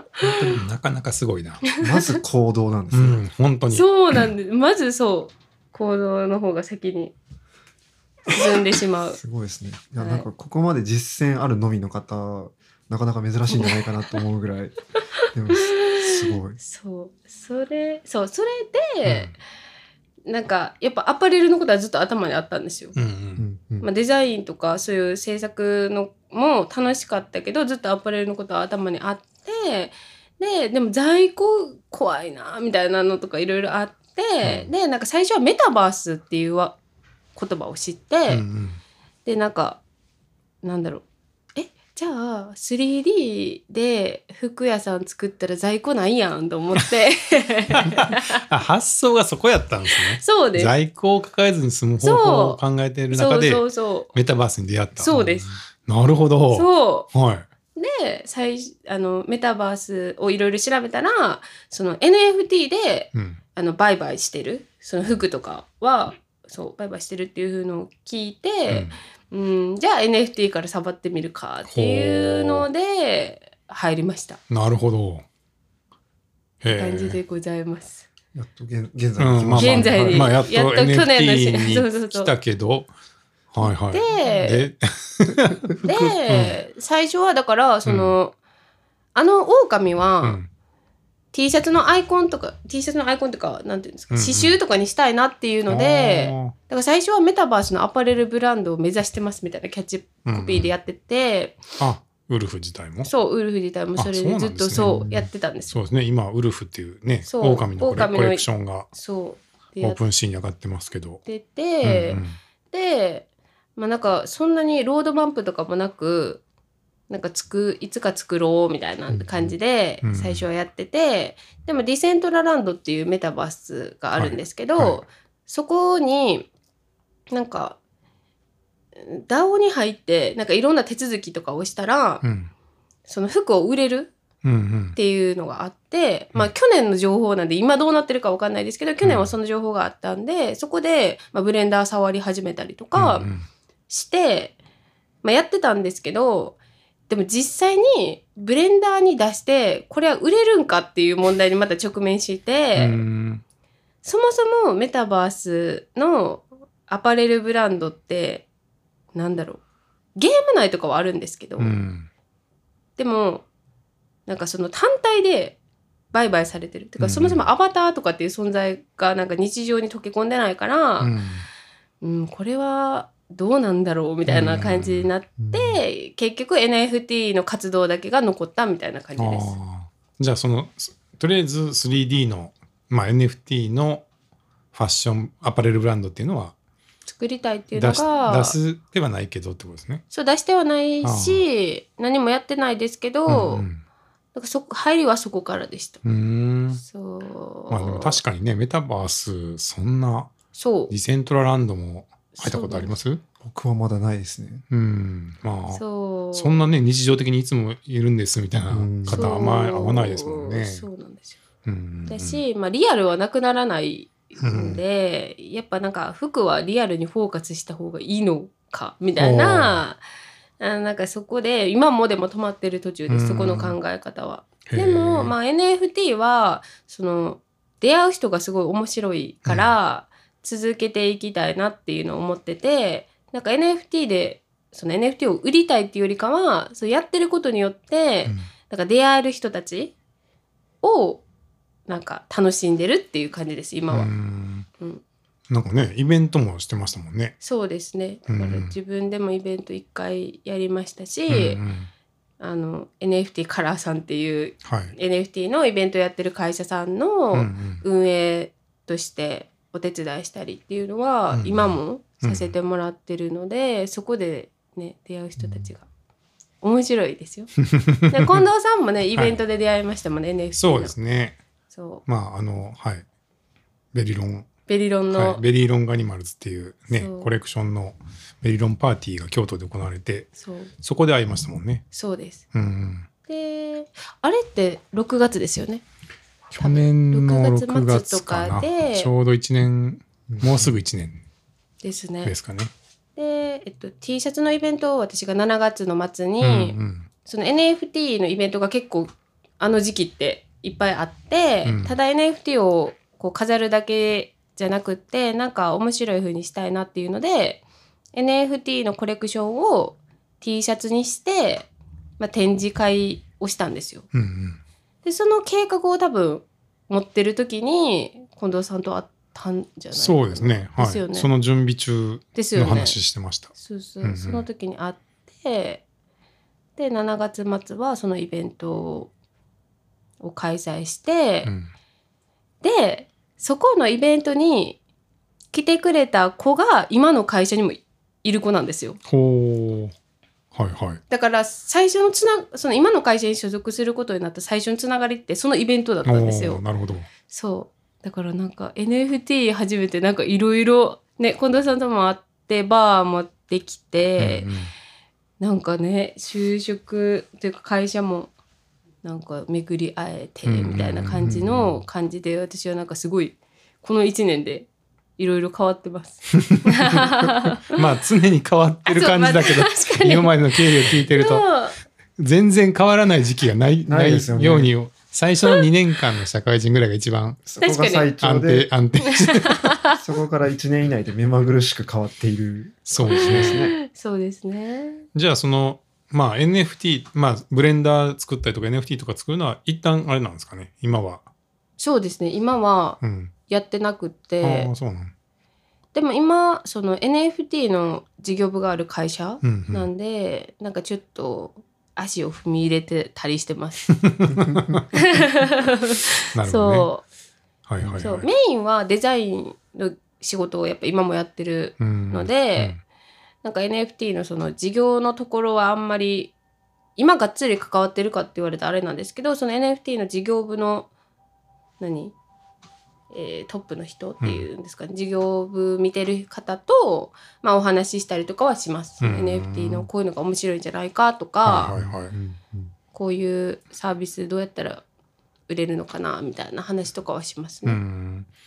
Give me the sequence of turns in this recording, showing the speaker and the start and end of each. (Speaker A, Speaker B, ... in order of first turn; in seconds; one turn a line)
Speaker A: 0.2-0.5
Speaker B: 0.2-1.6
Speaker C: 1.8-3.2
Speaker B: 2.9-3.9
Speaker A: 3.7-7.1
Speaker A: 8.3-9.2
Speaker C: 9.1-14.8
Speaker A: 10.0-10.3
Speaker A: 13.5-13.8
Speaker C: 15.3-16.6
Speaker A: 15.5-19.3
Speaker B: 19.1-19.3
Speaker A: 20.3-22.9
Speaker B: 22.9-23.4
Speaker C: 23.4-23.9
Speaker A: 23.8-36.8
Speaker B: 34.4-34.7
Speaker A: 37.4-38.4
Speaker B: 38.3-38.8
Speaker A: 39.2-39.8
Speaker A: 40.6-41.0
Speaker A: 41.6-48.4
Speaker B: 47.8-57.5
Speaker A: 50.2-50.7
Speaker A: 52.0-54.1
Speaker A: 55.0-55.5
Speaker A: 56.5-57.1
Speaker A: 57.8-74.4
Speaker B: 63.1-63.4
Speaker B: 68.7-68.9
Speaker B: 71.7-72.7
Speaker B: 74.5-75.2
Speaker B: 76.6-77.2
Speaker A: 76.7-78.1
Speaker C: 78.3-80.3
Speaker B: 79.2-82.9
Speaker A: 79.6-82.3
Speaker B: 83.5-86.6
Speaker A: 83.6-84.7
Speaker A: 85.8-88.3
Speaker B: 87.8-88.2
Speaker A: 89.1-90.4
Speaker B: 90.2-90.5
Speaker A: 91.3-101.6
Speaker B: 94.1-94.6
Speaker B: 95.7-96.5
Speaker B: 100.3-100.7
Speaker B: 101.8-103.1
Speaker A: 103.0-105.7
Speaker B: 104.0-105.1
Speaker C: 104.8-105.3
Speaker B: 105.7-108.9
Speaker A: 107.2-110.0
Speaker B: 109.8-111.2
Speaker A: 111.3-116.4
Speaker B: 111.8-112.4
Speaker A: 117.1-126.5
Speaker B: 120.0-120.4
Speaker B: 124.2-125.0
Speaker A: 127.3-127.8
Speaker A: 129.0-132.2
Speaker B: 132.2-132.5
Speaker A: 133.1-134.1
Speaker B: 134.4-135.0
Speaker A: 134.9-143.3
Speaker B: 139.0-139.3
Speaker B: 142.9-143.4
Speaker A: 143.9-144.6
Speaker A: 145.2-146.6
Speaker A: 147.1-153.0
Speaker B: 152.8-153.4
Speaker A: 154.0-158.4
Speaker A: 159.1-159.6
Speaker A: 160.2-161.8
Speaker B: 161.6-162.1
Speaker A: 163.0-163.4
Speaker A: 164.3-165.6
Speaker A: 166.1-171.1
Speaker B: 167.0-167.4
Speaker B: 171.0-171.4
Speaker A: 172.0-179.5
Speaker B: 174.3-175.1
Speaker C: 175.4-175.8
Speaker B: 179.2-184.1
Speaker B: 184.7-186.5
Speaker A: 187.1-188.6
Speaker B: 187.7-190.0
Speaker A: 190.1-193.7
Speaker B: 191.0-191.4
Speaker B: 193.3-193.8
Speaker A: 194.3-196.0
Speaker B: 196.0-196.8
Speaker A: 196.8-198.2
Speaker B: 197.7-200.3
Speaker A: 200.5-200.9
Speaker B: 200.9-203.2
Speaker A: 202.3-202.9
Speaker C: 203.4-204.6
Speaker B: 204.7-210.9
Speaker A: 205.7-206.7
Speaker C: 208.7-209.4
Speaker A: 209.1-211.4
Speaker B: 211.6-212.4
Speaker A: 212.1-220.0
Speaker B: 214.4-214.8
Speaker B: 219.2-219.8
Speaker A: 220.6-239.9
Speaker B: 223.1-223.8
Speaker B: 224.7-225.3
Speaker B: 229.4-229.7
Speaker A: 240.8-241.2
Speaker A: 241.9-244.1
Speaker B: 243.9-244.7
Speaker B: 245.5-247.4
Speaker A: 247.4-251.6
Speaker B: 248.3-248.8
Speaker B: 251.3-251.9
Speaker A: 252.4-265.9
Speaker B: 254.6-254.9
Speaker B: 257.3-257.8
Speaker B: 261.3-262.5
Speaker A: 266.6-267.5
Speaker B: 267.6-268.4
Speaker A: 268.1-270.9
Speaker B: 270.6-271.4
Speaker A: 271.7-272.0
Speaker B: 272.1-273.1
Speaker B: 273.9-274.5
Speaker A: 274.7-275.4
Speaker B: 275.1-281.9
Speaker A: 276.9-277.3
Speaker A: 280.4-280.7
Speaker A: 281.9-282.4
Speaker B: 282.5-283.1
Speaker A: 283.3-285.8
Speaker B: 286.5-291.2
Speaker A: 286.6-289.1
Speaker C: 290.3-290.8
Speaker A: 291.8-292.3
Speaker B: 292.2-292.7
Speaker A: 293.2-307.6
Speaker B: 296.4-297.1
Speaker B: 301.6-301.9
Speaker A: 308.1-311.7
Speaker A: 312.2-314.1
Speaker B: 314.1-314.6
Speaker A: 315.0-321.3
Speaker B: 319.9-324.4
Speaker A: 322.3-323.0
Speaker A: 323.5-325.8
Speaker A: 326.8-329.1
Speaker A: 330.2-331.5
Speaker A: 332.6-334.8
Speaker A: 335.5-339.0
Speaker B: 339.1-339.9
Speaker B: 340.5-341.0
Speaker A: 341.1-346.6
Speaker B: 346.1-347.1
Speaker A: 347.3-354.5
Speaker B: 354.2-354.7
Speaker A: 355.4-358.3
Speaker A: 359.0-367.8
Speaker B: 360.4-361.3
Speaker C: 361.2-361.8
Speaker B: 366.4-371.5
Speaker A: 368.9-371.8
Speaker B: 372.2-377.5
Speaker C: 373.9-374.7
Speaker C: 377.5-378.7
Speaker A: 377.6-378.1
Speaker B: 378.2-379.7
Speaker A: 379.0-380.0
Speaker C: 380.0-383.7
Speaker B: 382.9-383.6
Speaker A: 383.1-385.1
Speaker B: 385.1-391.2
Speaker A: 391.8-394.7
Speaker B: 393.0-393.3
Speaker B: 394.4-395.1
Speaker A: 395.9-403.9
Speaker B: 399.4-399.9
Speaker B: 403.9-404.8
Speaker C: 404.4-404.7
Speaker A: 404.9-407.0
Speaker B: 406.3-406.9
Speaker B: 407.7-408.3
Speaker A: 408.0-412.8
Speaker B: 411.8-412.8
Speaker A: 413.4-416.3
Speaker A: 417.0-420.9
Speaker A: 421.8-422.1
Speaker A: 423.1-431.7
Speaker B: 429.0-429.9
Speaker B: 431.4-432.1
Speaker C: 431.7-432.7
Speaker A: 432.9-434.8
Speaker A: 435.5-437.8
Speaker B: 437.6-438.3